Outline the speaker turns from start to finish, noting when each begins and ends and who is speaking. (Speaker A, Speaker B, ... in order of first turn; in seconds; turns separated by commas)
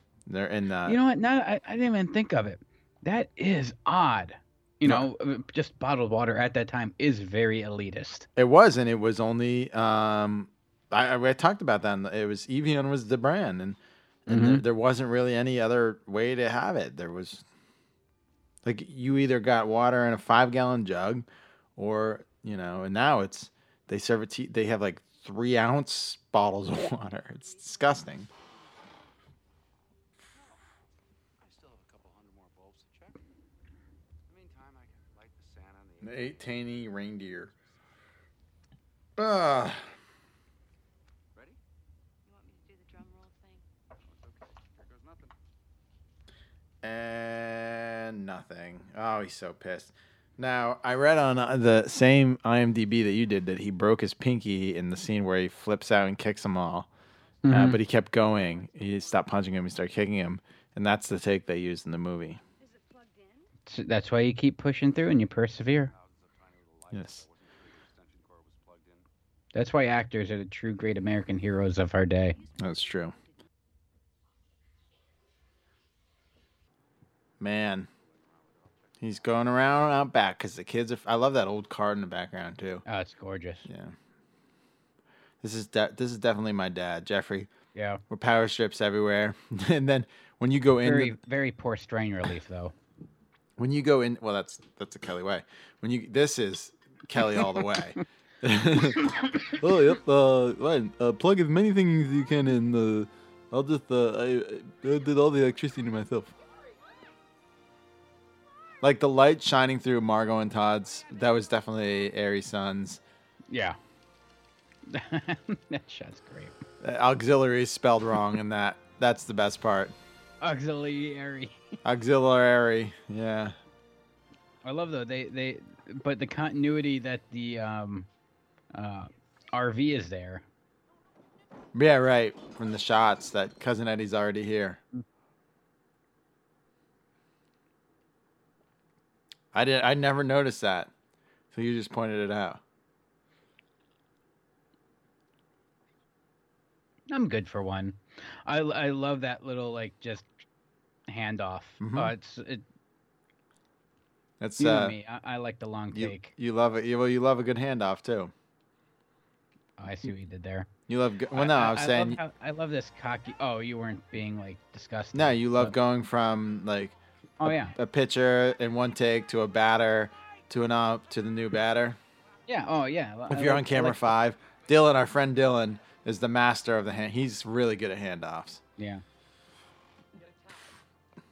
Speaker A: 0.3-1.0, Speaker B: 0.8-8.3, Speaker A: 8.3-17.4, Speaker B: 14.3-14.6, Speaker A: 18.6-21.2, Speaker A: 21.8-28.3, Speaker C: 31.4-33.2, Speaker C: 34.3-36.6, Speaker A: 36.0-37.5, Speaker A: 39.2-39.9, Speaker C: 41.3-41.6, Speaker D: 42.2-43.6, Speaker C: 44.0-45.3, Speaker A: 46.8-56.9, Speaker B: 57.4-57.8, Speaker A: 57.5-62.4, Speaker C: 58.2-59.4, Speaker D: 62.6-63.5, Speaker B: 63.7-65.9, Speaker C: 65.9-69.0, Speaker A: 66.9-67.2, Speaker B: 69.5-72.4, Speaker D: 72.3-73.4, Speaker A: 72.6-73.1, Speaker A: 77.4-77.9, Speaker C: 78.0-79.5, Speaker A: 79.0-82.8, Speaker B: 82.8-83.7, Speaker A: 83.6-83.9, Speaker A: 85.4-87.5, Speaker B: 87.7-88.0, Speaker A: 88.1-91.2, Speaker B: 90.8-92.7, Speaker A: 93.6-106.3, Speaker A: 108.8-113.0, Speaker B: 113.5-113.8, Speaker B: 114.9-116.5, Speaker A: 116.8-120.0, Speaker B: 120.4-121.8, Speaker A: 121.8-123.5, Speaker B: 124.6-128.1, Speaker B: 128.7-130.4, Speaker A: 131.7-134.8, Speaker A: 139.5-140.9, Speaker A: 141.5-142.6, Speaker B: 147.1-150.3, Speaker B: 151.1-152.6, Speaker A: 151.8-152.1, Speaker A: 154.4-154.9, Speaker B: 154.6-156.3, Speaker A: 155.9-158.3, Speaker B: 159.8-160.7, Speaker A: 160.9-162.2, Speaker B: 161.3-165.7, Speaker A: 165.1-172.0, Speaker B: 167.4-167.7, Speaker B: 172.5-174.1, Speaker A: 173.3-178.6, Speaker B: 178.8-179.0, Speaker C: 180.2-180.6